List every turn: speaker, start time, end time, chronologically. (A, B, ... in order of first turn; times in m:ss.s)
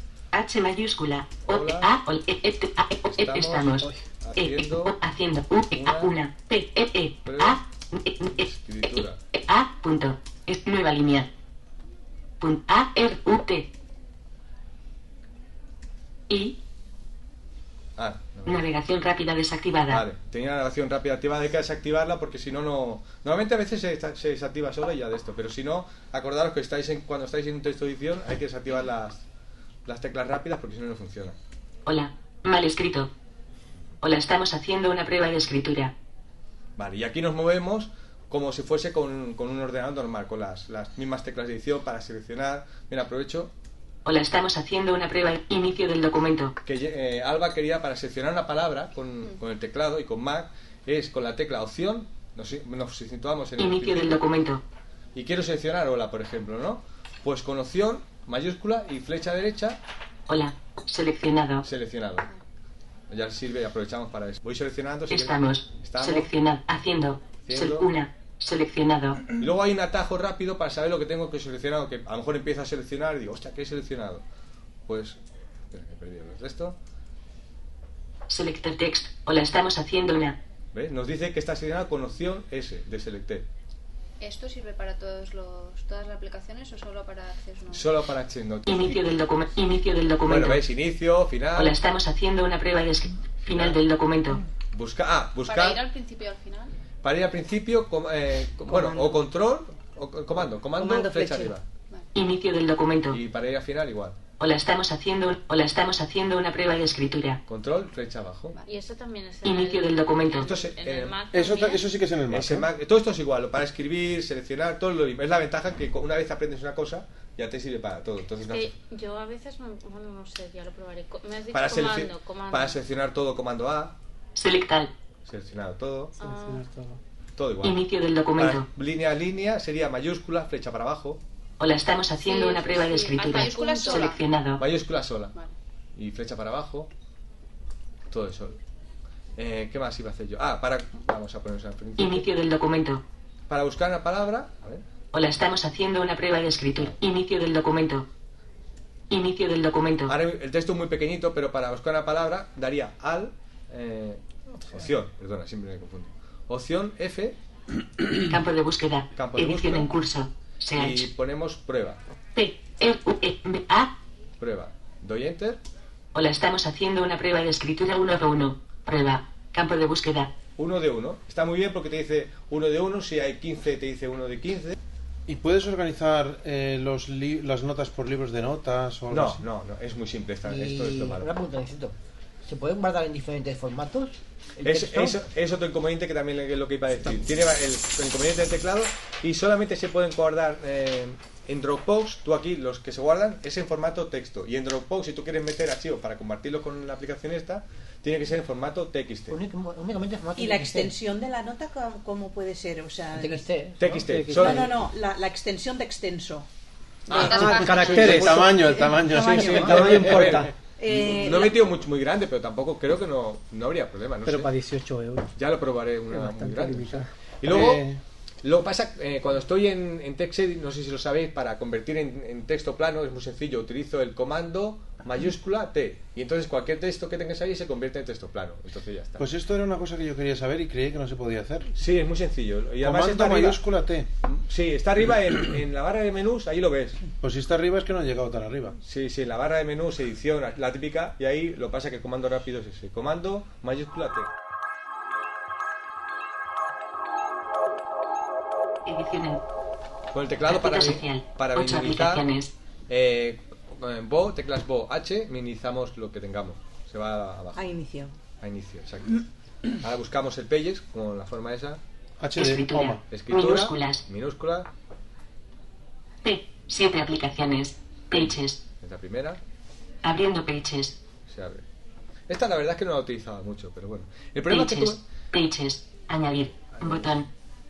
0:00.3-0:11.3 A
0:01.5-0:01.9 B
0:03.1-0:05.0 B
0:05.7-0:06.1 B
0:07.2-0:07.6 B
0:08.2-0:09.2 B
0:12.4-0:13.7 A
0:16.3-0:16.6 A
0:18.0-0:18.6 B
0:18.4-0:20.0 A
0:19.9-0:29.2 B
0:29.8-0:31.4 B
0:31.8-0:33.1 A
0:34.0-0:35.9 A
0:36.8-0:43.5 B
0:44.0-0:46.6 A
0:46.6-0:54.2 B
0:53.6-0:54.6 A
0:55.1-0:59.8 B
1:00.3-1:01.6 A
1:01.6-1:02.3 B
1:03.1-1:06.3 B
1:05.1-1:09.2 A
1:07.4-1:07.9 B
1:09.3-1:14.2 B
1:14.9-1:15.2 B
1:15.7-1:16.8 B
1:18.3-1:20.4 A
1:20.7-1:23.5 B
1:24.2-1:27.9 C
1:27.7-1:29.0 B
1:28.6-1:30.6 A
1:30.3-1:31.8 B
1:31.6-1:34.4 A
1:33.4-1:33.8 B
1:34.7-1:35.8 B
1:35.4-1:36.7 C
1:37.0-1:41.6 B
1:38.7-1:39.2 D
1:40.8-1:41.5 D
1:42.1-1:43.2 A
1:43.1-1:44.2 B
1:44.4-1:47.4 A
1:47.5-1:48.6 B
1:48.6-1:51.9 E
1:49.4-1:50.5 A
1:50.4-1:51.2 B
1:51.3-1:52.7 F
1:52.3-1:58.7 B
1:58.5-2:02.8 E
2:01.5-2:03.9 B
2:04.4-2:04.9 A
2:05.2-2:06.1 B
2:06.2-2:06.6 E
2:06.2-2:07.0 G
2:07.4-2:07.8 B
2:07.6-2:08.6 A
2:08.4-2:11.2 B
2:11.6-2:14.6 A
2:12.2-2:14.1 E
2:13.2-2:14.2 C
2:14.6-2:15.4 B
2:16.0-2:16.9 B
2:18.1-2:18.6 B
2:19.4-2:22.2 B
2:22.0-2:23.0 A
2:23.5-2:24.8 B
2:25.1-2:28.1 A
2:29.1-2:30.1 A
2:30.1-2:37.4 B
2:38.2-2:41.1 A
2:39.1-2:39.9 B
2:40.7-2:42.0 B
2:42.3-2:43.9 A
2:44.4-2:45.6 B
2:46.1-2:50.3 A
2:50.6-2:54.7 B
2:55.3-2:59.4 F
2:59.1-3:01.3 B
3:00.4-3:05.2 H
3:04.6-3:19.4 B
3:19.3-3:20.9 H
3:20.4-3:23.4 D
3:23.1-3:24.7 H
3:23.8-3:24.7 B
3:23.9-3:24.7 G
3:24.4-3:26.5 D
3:27.1-3:28.5 B
3:27.1-3:30.5 G
3:27.1-3:29.8 D
3:27.9-3:30.4 F
3:29.0-3:34.5 B
3:30.8-3:31.6 D
3:34.2-3:35.3 G
3:35.4-3:37.8 B
3:36.1-3:37.1 G
3:37.4-3:38.0 F
3:38.4-3:49.2 B
3:49.2-3:51.7 F
3:51.8-3:53.6 B
3:52.8-3:54.1 F
3:54.2-3:57.0 B
3:57.2-3:58.8 F
3:58.8-4:04.3 B
4:08.8-4:09.4 A
4:10.1-4:12.2 B
4:10.5-4:12.5 A
4:12.9-4:17.7 B
4:17.5-4:18.1 D
4:18.4-4:21.8 B
4:22.2-4:23.0 F
4:22.4-4:24.0 A
4:23.1-4:24.7 B
4:26.2-4:28.6 A
4:28.1-4:29.4 B
4:30.0-4:31.0 A
4:31.3-4:31.6 B
4:32.3-4:35.0 B
4:34.5-4:37.3 A
4:36.8-4:37.1 B